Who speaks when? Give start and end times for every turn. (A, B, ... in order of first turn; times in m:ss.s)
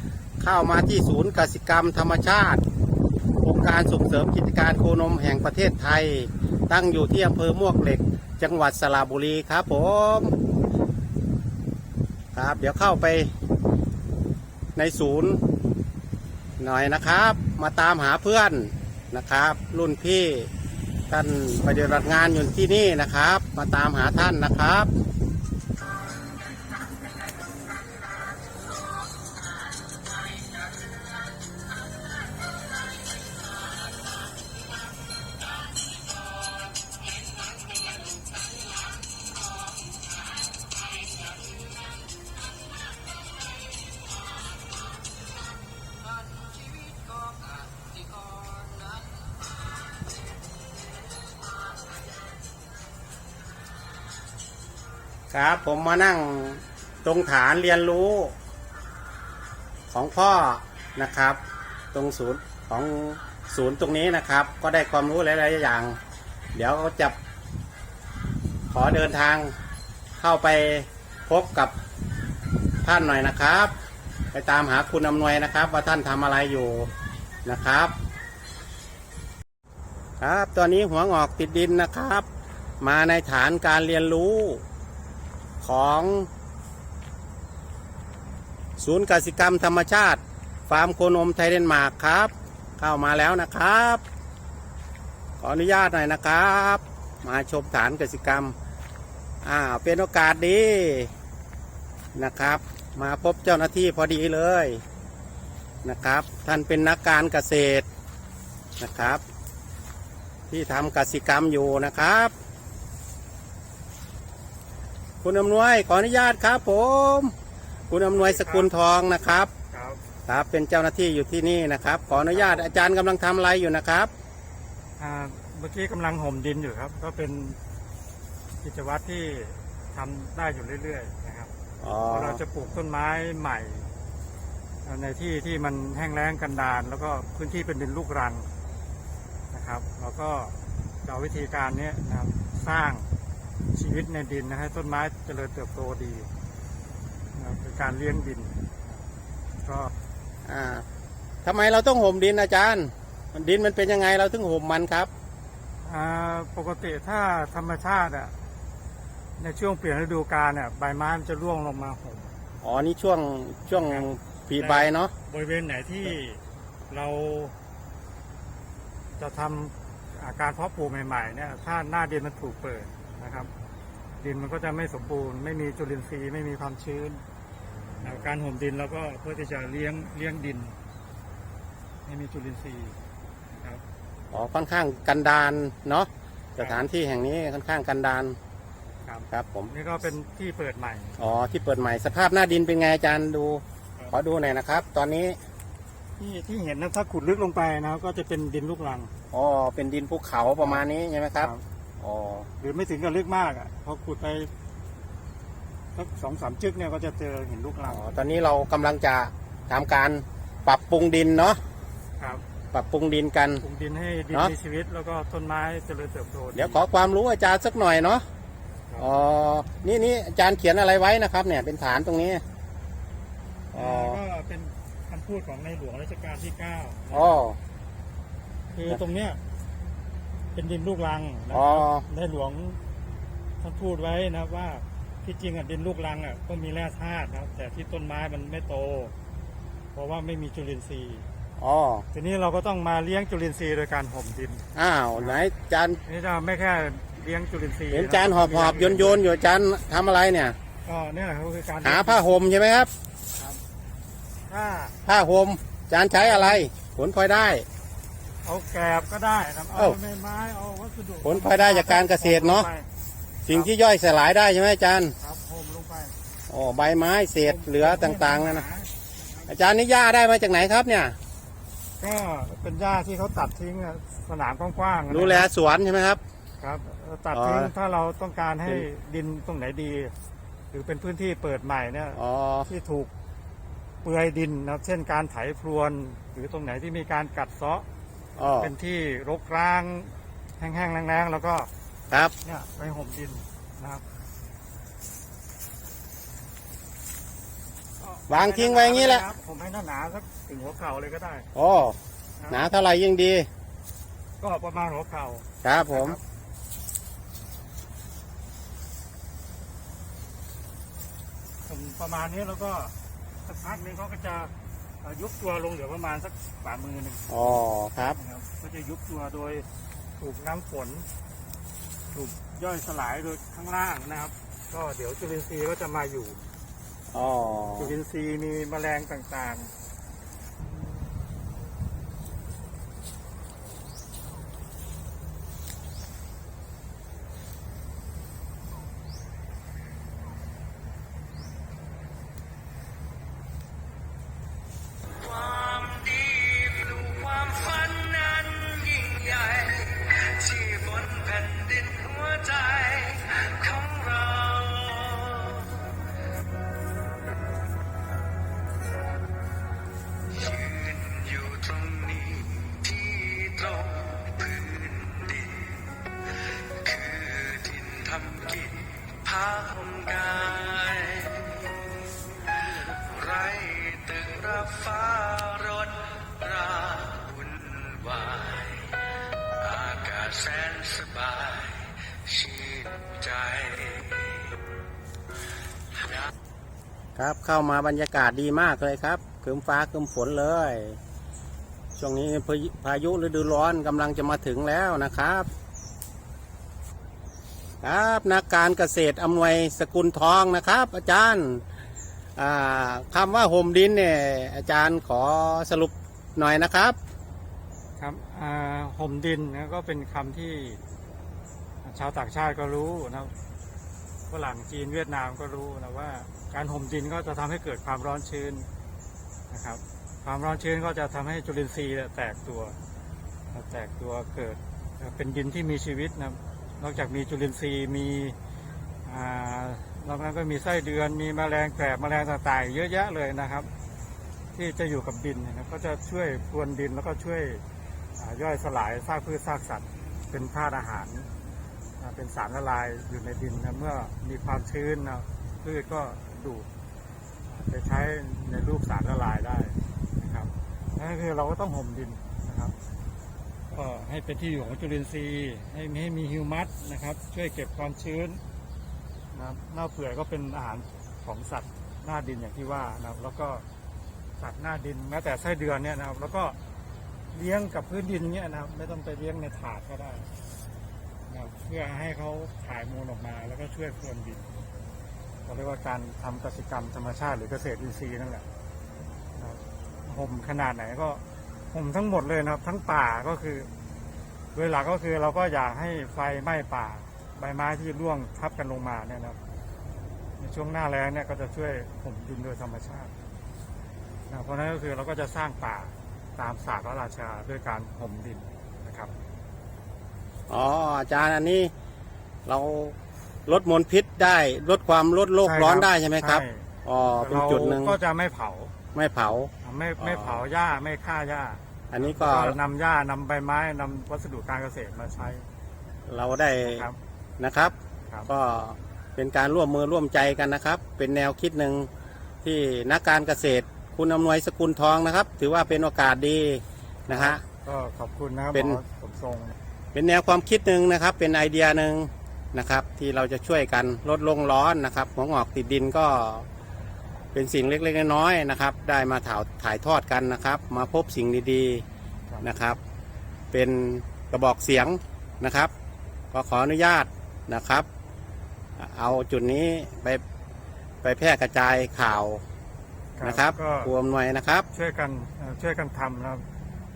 0:00.4-0:02.6 A
0:03.4-0:10.4 A
0:12.3-0:13.3 A
0:14.8-0:15.4 A
0:16.6-0:20.5 A
0:21.1-0:24.9 A
0:46.6-0:47.4 B
0:48.0-0:48.9 B
0:55.3-0:58.3 A
0:59.9-1:01.4 A
1:01.9-1:06.0 A
1:06.5-1:07.2 A
1:08.7-1:09.5 A
1:10.2-1:11.7 A
1:12.8-1:13.7 A
1:14.3-1:16.9 A
1:17.4-1:18.0 A
1:20.2-1:22.2 A
1:22.8-1:24.6 A
1:25.6-1:26.3 A
1:28.8-1:34.0 A
1:35.4-1:38.5 A
1:39.4-1:41.1 A
1:42.1-1:44.8 A
1:45.8-1:47.9 A
1:48.8-1:49.2 A
1:50.5-1:52.3 A
1:55.2-1:57.3 A
1:57.9-1:59.5 A
1:58.1-1:58.7 C
1:59.7-2:00.0 C
2:00.3-2:04.1 A
2:02.1-2:02.7 C
2:05.0-2:07.6 C
2:08.6-2:11.5 C
2:11.8-2:12.4 A
2:12.0-2:13.9 C
2:14.8-2:18.5 C
2:19.5-2:23.1 C
2:23.7-2:26.3 C
2:27.3-2:29.0 C
2:29.6-2:29.9 C
2:30.4-2:30.8 A
2:31.4-2:35.1 A
2:35.8-2:38.3 C
2:39.4-2:42.3 C
2:42.6-2:45.1 A
2:44.6-2:47.5 C
2:49.2-2:53.5 C
2:54.2-2:57.2 C
2:58.0-3:00.8 C
3:02.0-3:03.0 C
3:03.5-3:03.8 C
3:04.3-3:08.4 A
3:06.6-3:06.8 C
3:09.0-3:11.2 C
3:09.3-3:09.7 A
3:11.2-3:15.4 A
3:16.2-3:19.1 C
3:19.3-3:22.5 A
3:22.6-3:24.5 C
3:25.9-3:28.1 C
3:27.8-3:31.6 A
3:32.7-3:33.6 A
3:33.6-3:36.8 C
3:36.5-3:38.2 A
3:38.9-3:39.2 C
3:39.0-3:42.4 A
3:43.7-3:47.4 C
3:43.7-3:44.2 A
3:47.1-3:47.6 A
3:48.7-3:49.4 C
3:50.5-3:52.8 C
3:51.5-3:52.0 A
3:53.6-3:59.1 C
3:59.9-4:01.3 C
4:01.6-4:02.0 A
4:02.1-4:05.4 C
4:04.8-4:06.0 A
4:06.0-4:09.2 C
4:07.9-4:10.6 A
4:10.8-4:12.2 C
4:11.8-4:12.9 A
4:14.5-4:14.9 C
4:15.0-4:17.6 A
4:16.1-4:16.7 C
4:18.4-4:22.9 C
4:21.2-4:22.7 A
4:23.4-4:25.1 A
4:25.2-4:26.1 C
4:26.5-4:28.6 A
4:27.4-4:29.6 C
4:29.5-4:31.2 A
4:32.0-4:35.5 C
4:35.1-4:36.2 A
4:36.6-4:40.1 C
4:37.3-4:37.7 A
4:40.7-4:43.1 C
4:42.2-4:42.7 A
4:44.0-4:47.8 C
4:48.4-4:48.7 A
4:48.6-4:51.7 C
4:52.3-4:54.0 C
4:58.0-5:01.5 C
4:58.3-4:59.2 A
5:01.5-5:02.0 A
5:02.4-5:02.7 C
5:02.5-5:03.5 A
5:04.4-5:06.2 C
5:05.6-5:06.2 A
5:11.6-5:12.9 C
5:13.4-5:19.6 C
5:17.3-5:18.2 A
5:20.2-5:21.0 C
5:22.1-5:26.4 C
5:27.1-5:27.9 A
5:27.8-5:29.7 C
5:45.2-5:55.9 B
6:00.3-6:05.8 B
6:06.7-6:11.7 B
6:13.0-6:19.0 B
6:19.6-6:24.4 B
6:27.2-6:31.0 A
6:32.0-6:35.5 A
6:37.8-6:41.6 A
6:42.4-6:47.0 A
6:48.0-6:50.8 C
6:51.8-6:53.3 C
6:54.3-6:58.7 C
6:59.5-7:02.8 C
7:03.5-7:08.4 C
7:09.0-7:13.7 C
7:14.5-7:17.6 C
7:18.2-7:21.3 C
7:22.0-7:26.7 C
7:27.5-7:32.7 C
7:33.7-7:38.4 C
7:39.3-7:43.6 C
7:44.4-7:46.6 C
7:47.3-7:50.3 C
7:51.3-7:54.5 C
7:55.4-7:58.5 C
7:59.4-8:03.7 C
8:04.5-8:09.4 C
8:10.4-8:13.1 C
8:14.3-8:19.1 C
8:20.5-8:21.7 A
8:22.4-8:28.0 A
8:25.4-8:28.7 C
8:28.9-8:30.4 A
8:29.6-8:35.4 C
8:31.9-8:32.6 A
8:36.0-8:36.9 A
8:36.6-8:37.0 C
8:37.4-8:37.7 A
8:38.3-8:41.9 A
8:42.4-8:47.4 A
8:47.1-8:49.6 C
8:48.5-8:48.8 A
8:49.9-8:56.5 A
8:57.3-9:01.8 A
9:02.4-9:02.8 A
9:03.5-9:05.7 A
9:06.3-9:07.9 A
9:08.8-9:10.2 A
9:11.0-9:12.4 A
9:13.2-9:13.9 C
9:13.2-9:14.6 A
9:14.7-9:16.4 C